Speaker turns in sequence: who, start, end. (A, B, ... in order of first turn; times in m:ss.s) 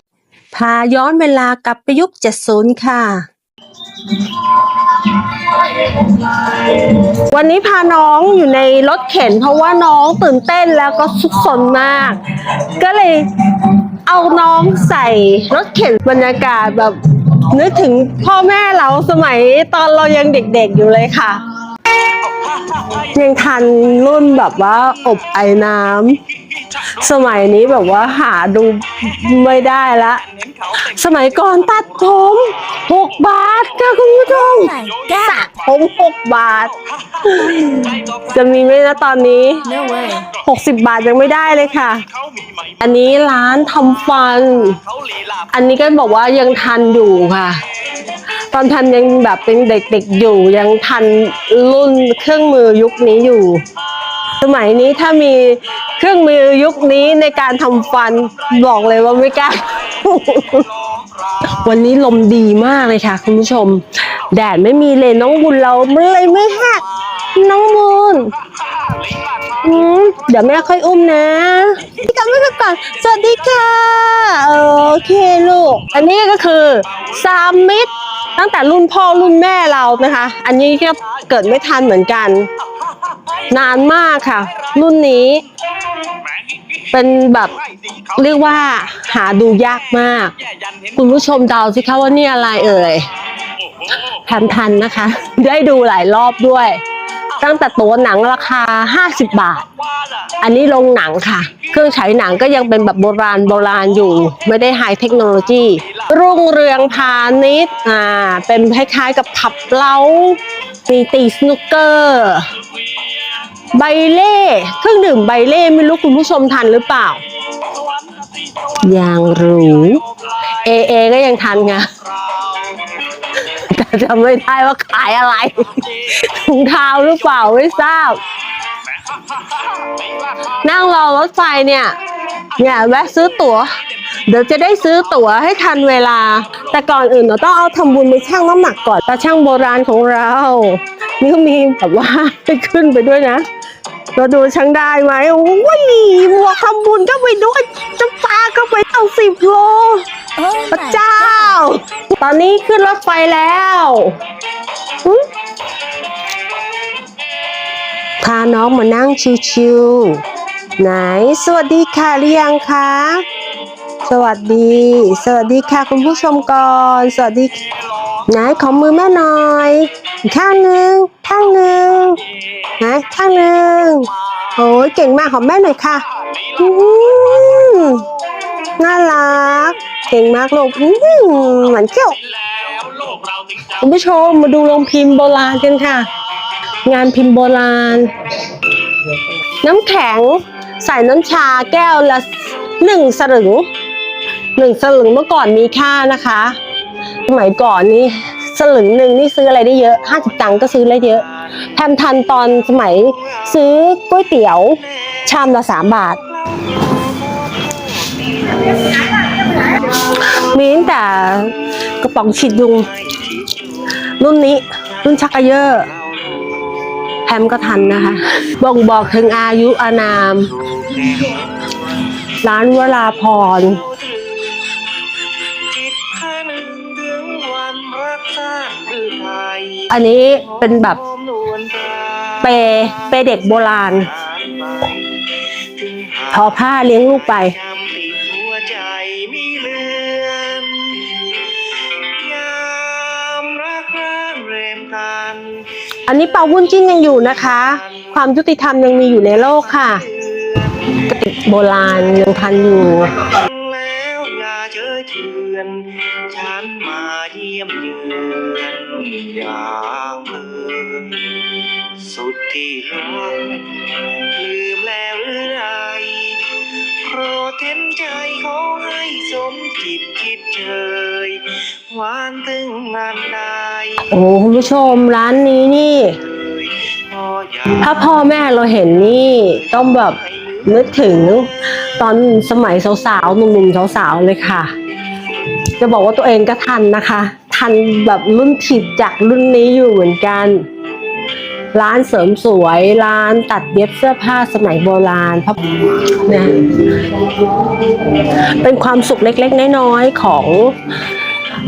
0:00.5-0:03.3 A
0:04.1-0:21.4 A
0:22.4-0:23.0 B
0:22.9-0:26.2 A
0:26.8-0:42.0 A
0:34.6-0:35.4 C
0:37.0-0:38.2 B
0:39.7-0:40.2 C
0:42.3-0:42.6 B
0:42.8-0:44.8 A
0:45.0-0:45.4 B
0:45.5-0:47.6 A
0:48.5-0:53.6 A
0:54.4-1:00.7 A
1:00.9-1:01.4 B
1:01.4-1:08.3 A
1:08.7-1:09.6 B
1:09.6-1:22.5 A
1:23.5-1:25.4 A
1:26.9-1:27.6 A
1:28.1-1:30.3 A
1:30.5-1:30.9 B
1:30.9-1:33.1 A
1:34.1-1:36.8 A
1:37.4-1:39.7 A
1:40.0-1:40.2 B
1:40.4-1:52.5 A
1:53.7-1:57.2 A
1:57.7-1:58.7 B
1:58.8-2:01.9 A
2:02.3-2:02.8 B
2:03.4-2:08.2 A
2:09.0-2:10.6 B
2:10.6-2:12.0 A
2:12.6-2:23.5 A
2:24.2-2:30.1 A
2:30.4-2:31.5 C
2:30.6-2:34.2 A
2:38.2-2:40.2 A
2:40.8-2:43.2 A
2:44.0-2:47.6 A
2:48.2-2:52.2 A
2:52.8-2:58.1 A
2:57.5-2:58.0 B
2:58.8-3:02.2 A
3:02.4-3:03.6 B
3:03.7-3:06.1 A
3:06.8-3:08.2 A
3:09.6-3:13.7 A
3:14.6-3:16.6 A
3:17.3-3:26.2 A
3:26.3-3:29.1 B
3:29.8-3:32.9 A
3:32.9-3:33.9 B
3:34.1-3:35.9 A
3:35.8-3:36.6 B
3:37.3-3:40.6 A
3:40.6-3:42.2 B
3:42.4-3:43.8 A
3:43.6-3:44.8 B
3:45.6-3:49.9 B
3:49.9-3:51.0 A
3:50.6-3:53.0 B
3:52.4-3:54.1 A
3:53.6-3:56.3 B
3:56.3-3:57.5 A
3:57.4-4:05.8 B
4:06.1-4:10.0 A
4:09.9-4:11.0 B
4:10.9-4:13.4 A
4:13.3-4:34.0 B
4:34.0-4:36.2 A
4:36.2-4:37.8 B
4:37.7-4:44.7 A
4:39.4-4:40.6 B
4:45.8-4:50.6 A
4:51.7-5:00.8 A